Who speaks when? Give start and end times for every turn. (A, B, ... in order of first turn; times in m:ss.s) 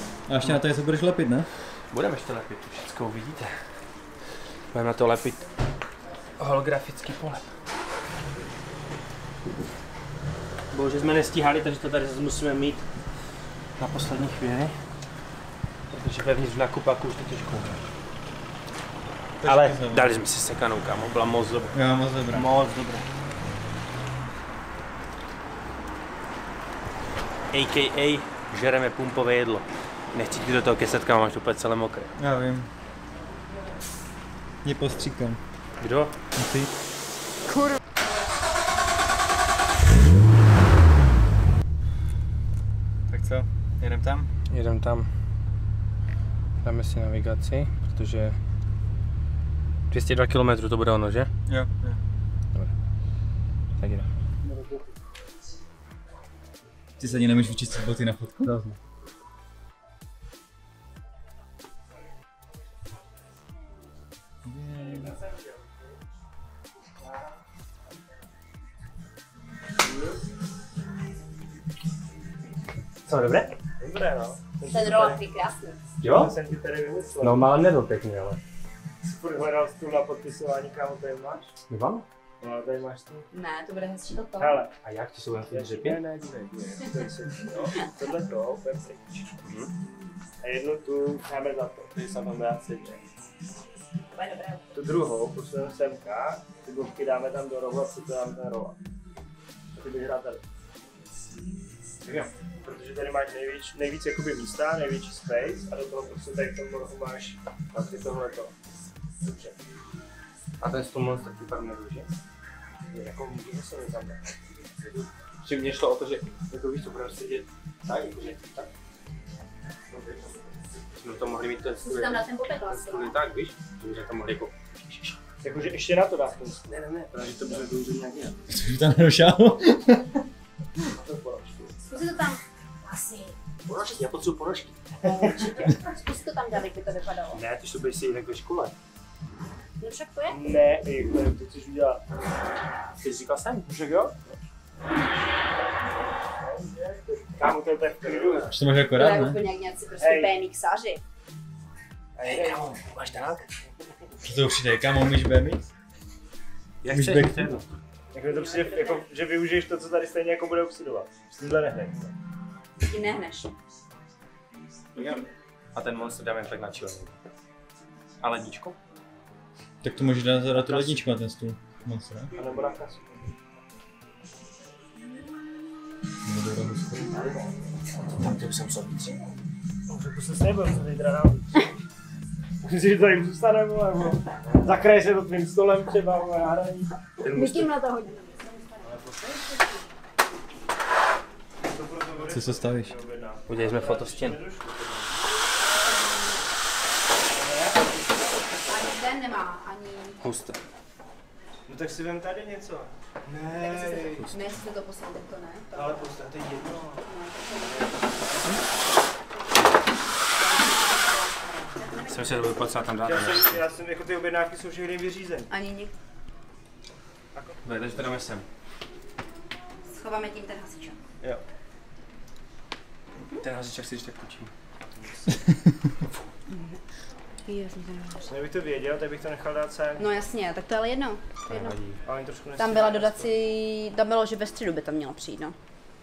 0:00.3-0:01.5 A
0:01.9-0:03.6 B
0:04.7-0:05.4 B
0:06.4-0:07.4 B
0:10.7-0:12.8 B
0:13.8-0:14.8 B
0:15.9-0:17.8 B
0:19.4-0:20.1 A
0:19.4-0:21.7 B
0:21.7-0:22.5 A
0:22.3-0:23.0 B
0:27.5-0:32.1 B
0:32.2-0:32.7 A
0:34.6-0:35.4 A
0:35.8-0:36.1 B
0:36.4-0:36.7 A
0:43.1-0:44.3 A
0:44.5-0:45.1 B
0:46.6-0:48.4 B
0:49.9-0:51.3 B
0:51.5-0:51.7 A
0:53.8-0:54.1 B
0:54.4-0:54.8 C
0:57.0-0:58.5 A
0:58.4-0:58.8 B
1:04.4-1:05.1 A
1:04.8-1:05.3 C
1:13.0-1:13.5 B
1:13.8-1:15.2 C
1:14.6-1:15.8 D
1:16.0-1:16.3 B
1:16.0-1:17.4 C
1:17.2-1:18.4 B
1:19.0-1:21.5 C
1:21.7-1:22.0 B
1:22.4-1:23.2 C
1:23.3-1:24.6 D
1:24.4-1:24.7 C
1:24.8-1:26.0 B
1:25.5-1:29.2 C
1:29.4-1:29.7 B
1:30.4-1:33.0 C
1:34.1-1:34.6 D
1:34.7-1:38.8 C
1:39.8-1:40.4 C
1:42.0-1:42.3 B
1:42.6-1:48.5 C
1:49.2-1:49.5 C
1:50.6-1:52.1 B
1:52.9-1:54.3 C
1:55.4-1:58.7 B
2:01.0-2:05.2 B
2:01.8-2:03.2 D
2:05.4-2:07.7 C
2:06.7-2:08.0 B
2:08.5-2:10.2 A
2:10.9-2:11.7 C
2:11.9-2:13.4 D
2:13.6-2:14.8 B
2:15.0-2:17.4 D
2:15.1-2:15.7 C
2:17.3-2:18.7 B
2:19.8-2:20.4 D
2:20.3-2:22.0 C
2:23.0-2:23.8 B
2:23.7-2:24.1 C
2:26.4-2:28.5 C
2:27.4-2:28.4 B
2:28.5-2:29.4 A
2:28.8-2:31.0 D
2:30.0-2:30.4 C
2:32.2-2:32.8 C
2:32.2-2:33.4 B
2:34.2-2:35.6 A
2:36.8-2:37.7 B
2:36.9-2:37.6 A
2:38.1-2:42.1 C
2:38.3-2:39.0 D
2:42.8-2:43.5 D
2:45.0-2:45.2 B
2:45.7-2:47.1 B
2:48.2-2:48.8 B
2:49.8-2:52.3 A
2:50.5-2:51.1 C
2:52.3-2:53.1 C
2:56.2-2:57.1 A
2:58.1-2:59.2 B
2:59.9-3:01.6 C
3:02.6-3:07.0 C
3:07.2-3:07.7 B
3:07.3-3:08.8 D
3:08.8-3:09.4 C
3:11.6-3:15.0 C
3:12.3-3:12.9 A
3:13.5-3:14.4 B
3:15.8-3:16.4 D
3:17.4-3:17.8 C
3:18.6-3:20.2 D
3:20.2-3:20.6 B
3:21.7-3:24.2 C
3:23.5-3:25.7 D
3:25.7-3:27.0 C
3:27.0-3:27.8 D
3:30.5-3:32.0 D
3:32.1-3:33.6 B
3:33.0-3:35.5 C
3:35.5-3:35.9 D
3:37.6-3:38.4 B
3:39.9-3:41.0 D
3:43.4-3:44.5 B
3:45.0-3:45.2 C
3:46.5-3:46.8 D
3:47.4-3:48.4 D
3:48.3-3:50.1 C
3:50.0-3:51.8 D
3:51.4-3:52.0 B
3:52.0-3:53.3 C
3:52.6-3:55.5 D